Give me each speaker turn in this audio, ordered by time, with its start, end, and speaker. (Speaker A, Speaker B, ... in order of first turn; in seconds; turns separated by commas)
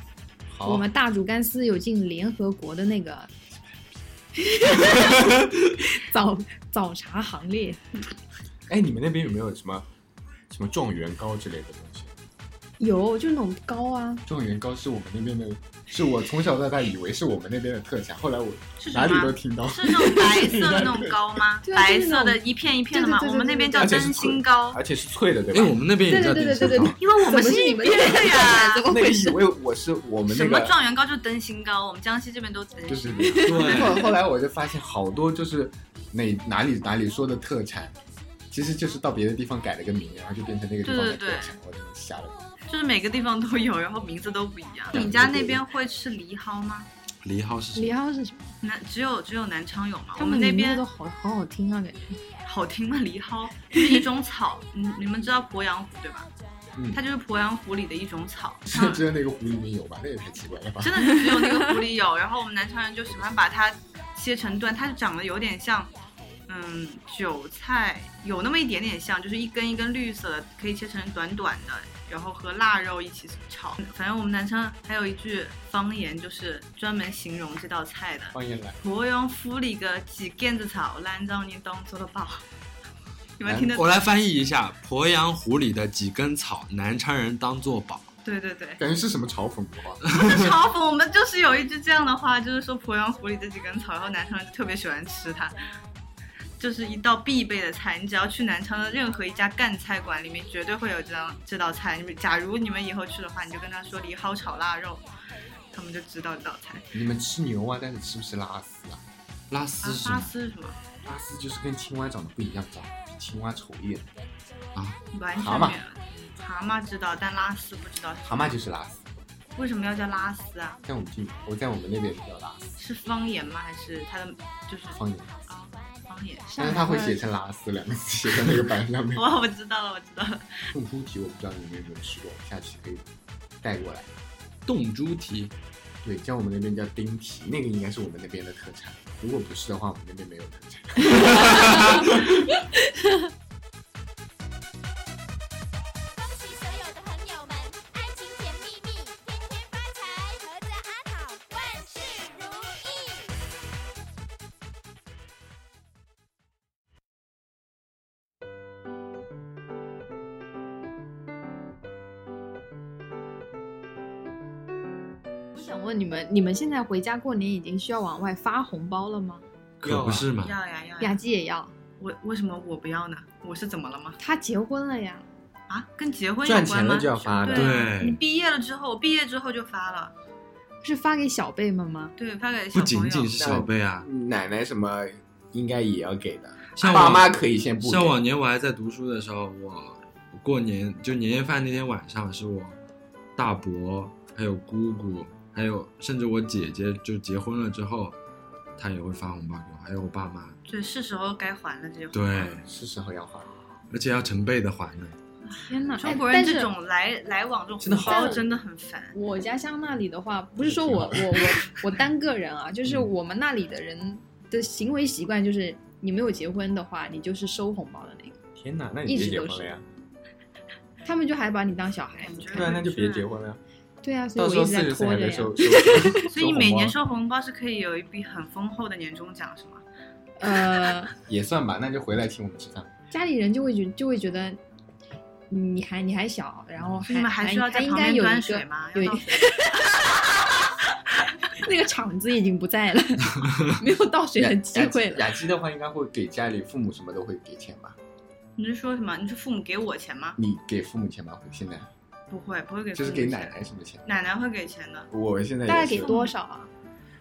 Speaker A: 0.5-0.9, Speaker B: 0.6-3.3, Speaker B: 4.4-7.8, Speaker A: 8.7-9.9, Speaker A: 10.5-12.2, Speaker B: 12.8-14.2, Speaker A: 14.3-21.3, Speaker C: 18.8-24.8, Speaker B: 21.6-22.4, Speaker B: 22.9-23.9, Speaker A: 23.8-26.9, Speaker D: 25.5-27.0, Speaker B: 26.1-29.4, Speaker C: 27.0-28.9, Speaker A: 28.9-30.8, Speaker C: 30.3-33.9, Speaker A: 32.9-38.0, Speaker B: 33.2-33.8, Speaker D: 33.5-34.0, Speaker A: 38.5-42.4, Speaker C: 40.8-41.6, Speaker C: 42.7-46.9, Speaker A: 44.9-45.6, Speaker D: 47.2-48.0, Speaker B: 47.8-48.5, Speaker C: 48.6-50.8, Speaker B: 50.2-52.2, Speaker C: 52.5-56.3, Speaker A: 56.8-57.0, Speaker C: 56.9-59.0, Speaker A: 58.7-61.0, Speaker C: 60.8-65.9, Speaker B: 61.1-61.7, Speaker C: 66.5-82.5, Speaker A: 78.3-78.8, Speaker C: 83.4-83.9, Speaker A: 83.4-83.8, Speaker D: 83.7-88.1, Speaker C: 88.2-88.8, Speaker A: 88.8-90.0, Speaker D: 90.1-90.5, Speaker C: 90.1-95.6, Speaker C: 96.6-105.1, Speaker C: 105.7-106.9, Speaker A: 106.9-109.0, Speaker D: 109.5-110.3, Speaker C: 109.8-110.8, Speaker A: 111.0-114.1, Speaker C: 115.1-118.5, Speaker A: 115.3-115.8, Speaker A: 118.2-119.1, Speaker C: 119.5-120.8, Speaker A: 120.9-122.8, Speaker C: 122.8-126.5, Speaker A: 124.9-125.3, Speaker B: 126.5-127.2, Speaker A: 126.6-129.3, Speaker C: 129.2-130.7, Speaker A: 130.7-133.1, Speaker A: 133.6-134.1, Speaker D: 134.7-135.5, Speaker A: 136.0-142.5, Speaker D: 141.4-141.9, Speaker E: 146.2-153.3, Speaker B: 165.6-169.4, Speaker D: 169.8-170.6, Speaker A: 169.8-170.3, Speaker C: 170.4-171.2, Speaker B: 171.0-171.7, Speaker C: 172.0-174.2, Speaker B: 174.2-175.3, Speaker C: 175.7-180.1, Speaker A: 176.4-177.8, Speaker D: 177.5-178.2, Speaker B: 180.8-182.1, Speaker C: 182.2-183.4, Speaker D: 182.7-184.1, Speaker A: 183.3-188.2, Speaker D: 186.8-187.3, Speaker D: 187.8-192.8, Speaker D: 193.4-198.2, Speaker D: 198.8-200.6, Speaker C: 200.7-202.6, Speaker D: 202.1-202.7, Speaker A: 202.6-203.5, Speaker D: 203.9-205.2, Speaker C: 205.5-209.2, Speaker B: 205.5-206.7, Speaker A: 207.8-208.4, Speaker B: 208.0-208.4, Speaker B: 209.1-218.4, Speaker A: 210.6-211.5, Speaker A: 212.8-213.1, Speaker A: 218.6-219.8, Speaker B: 219.1-219.7, Speaker B: 221.0-222.8, Speaker C: 222.2-223.3, Speaker A: 222.5-223.6, Speaker B: 224.0-226.2, Speaker A: 224.4-227.0, Speaker C: 226.2-229.8, Speaker B: 230.4-231.1, Speaker A: 231.2-232.9, Speaker B: 233.1-234.6, Speaker B: 235.5-240.5, Speaker C: 237.1-239.8, Speaker B: 241.5-245.3, Speaker A: 244.4-248.0, Speaker C: 248.6-250.4, Speaker A: 250.4-251.9, Speaker C: 252.3-255.1, Speaker A: 252.9-254.1, Speaker A: 255.1-256.1, Speaker B: 255.7-256.7, Speaker C: 256.0-256.3